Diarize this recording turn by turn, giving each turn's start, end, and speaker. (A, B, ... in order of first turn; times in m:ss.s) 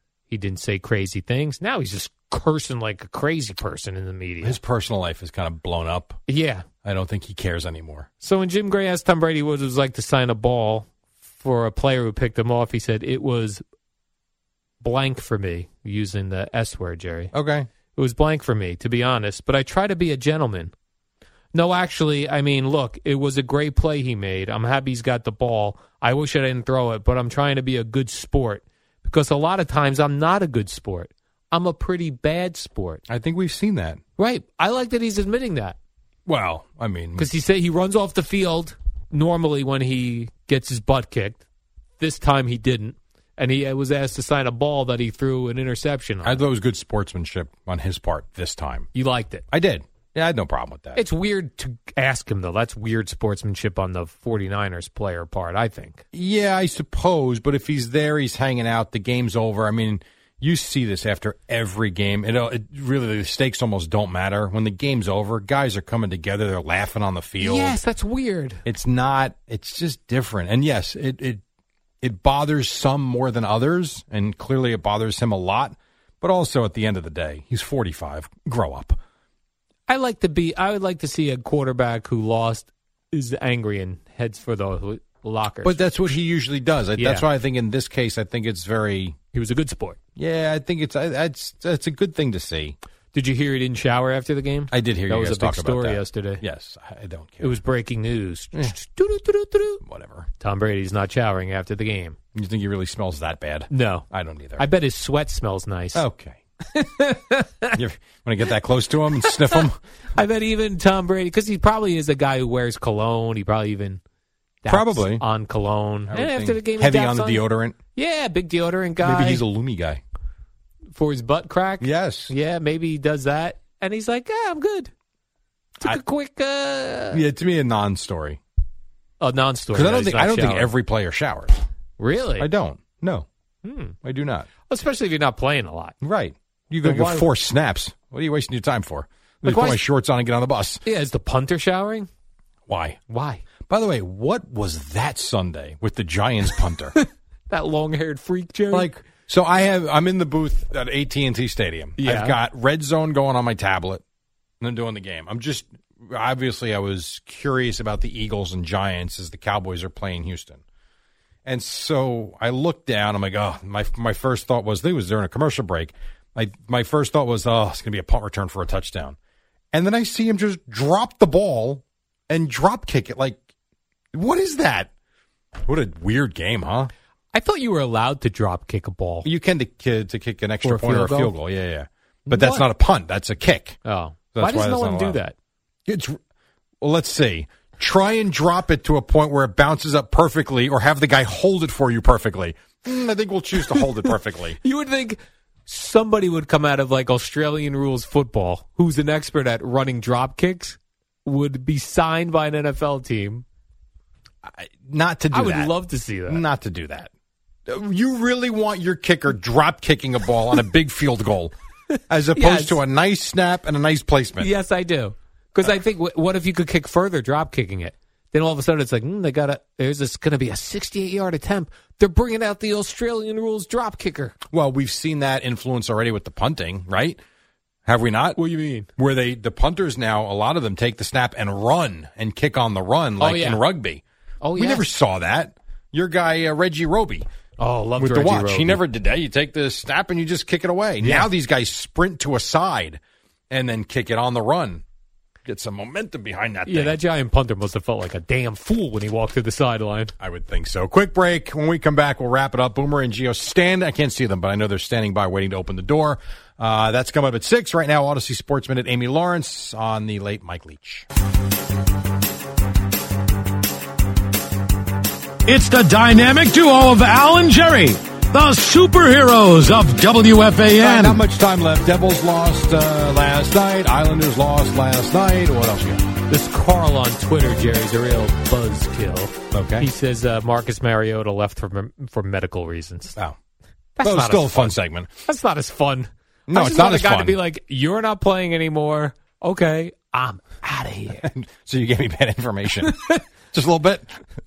0:00.3-0:04.6 A
0:04.4-0:06.2 B
0:06.3-0:06.7 A
0:06.8-0:08.1 B
0:08.2-0:13.6 A
0:14.8-0:17.3 A
0:17.3-0:17.7 B
0:17.9-0:20.7 A
0:21.5-0:33.0 A
0:33.1-0:34.0 B
0:34.2-0:35.8 A
0:36.3-0:37.3 B
0:37.2-0:41.4 A
0:42.0-0:46.5 A
0:46.2-0:48.9 B
0:48.9-0:49.4 A
0:49.5-0:51.0 B
0:51.0-0:56.0 A
0:56.1-1:07.8 B
1:07.4-1:08.6 A
1:08.6-1:11.4 B
1:12.0-1:19.0 B
1:19.9-1:25.9 A
1:25.6-1:29.2 B
1:27.0-1:27.3 A
1:29.3-1:30.0 A
1:30.2-1:32.8 B
1:33.1-1:36.4 A
1:34.7-1:37.6 B
1:37.4-1:39.8 A
1:39.8-1:40.3 B
1:40.4-1:42.2 A
1:42.4-1:44.7 B
1:43.7-1:44.1 A
1:44.6-1:46.0 A
1:45.9-1:46.4 B
1:46.7-1:47.8 A
1:47.8-1:49.8 B
1:49.2-1:54.0 A
1:54.6-1:59.4 A
1:54.7-1:55.2 B
1:56.1-1:57.8 B
1:59.0-2:00.0 B
2:00.9-2:04.9 A
2:01.8-2:02.3 B
2:05.8-2:07.2 A
2:07.1-2:08.4 B
2:09.2-2:10.7 A
2:09.7-2:11.6 B
2:12.0-2:12.5 A
2:12.4-2:13.3 B
2:13.6-2:14.0 A
2:14.0-2:14.5 B
2:14.7-2:16.0 A
2:16.0-2:20.8 B
2:16.8-2:17.3 A
2:19.4-2:19.8 A
2:20.8-2:22.1 A
2:22.7-2:23.0 B
2:23.1-2:23.4 A
2:23.7-2:26.9 B
2:26.9-2:28.9 A
2:28.7-2:34.0 B
2:32.0-2:32.4 A
2:34.6-2:40.6 B
2:41.5-2:49.2 B
2:49.7-2:53.4 B
2:54.1-2:54.9 B
2:55.6-2:56.9 B
2:57.3-2:59.3 A
2:59.2-3:03.8 B
3:00.6-3:01.4 A
3:02.3-3:02.7 A
3:03.8-3:05.4 A
3:04.3-3:05.2 B
3:05.9-3:06.2 B
3:06.8-3:14.6 B
3:13.6-3:23.4 A
3:24.4-3:25.7 B
3:25.3-3:26.4 A
3:26.3-3:27.1 B
3:27.7-3:31.6 B
3:32.1-3:34.5 B
3:32.4-3:32.8 A
3:34.4-3:44.4 A
3:44.5-3:47.2 B
3:47.9-3:48.4 B
3:48.4-3:48.9 A
3:49.0-3:54.0 B
3:53.2-3:53.6 A
3:54.4-3:54.8 A
3:54.6-3:57.3 B
3:57.6-3:58.8 A
3:58.0-4:03.0 B
4:01.0-4:01.3 A
4:03.5-4:04.8 B
4:05.4-4:07.0 B
4:06.7-4:10.1 A
4:10.2-4:21.1 B
4:25.5-4:31.2 C
4:30.8-4:36.0 B
4:36.3-4:43.2 A
4:39.5-4:39.9 B
4:44.0-4:51.3 A
4:44.0-4:45.1 B
4:46.5-4:47.4 B
4:51.2-4:53.0 B
4:52.8-4:53.2 A
4:53.5-4:54.2 B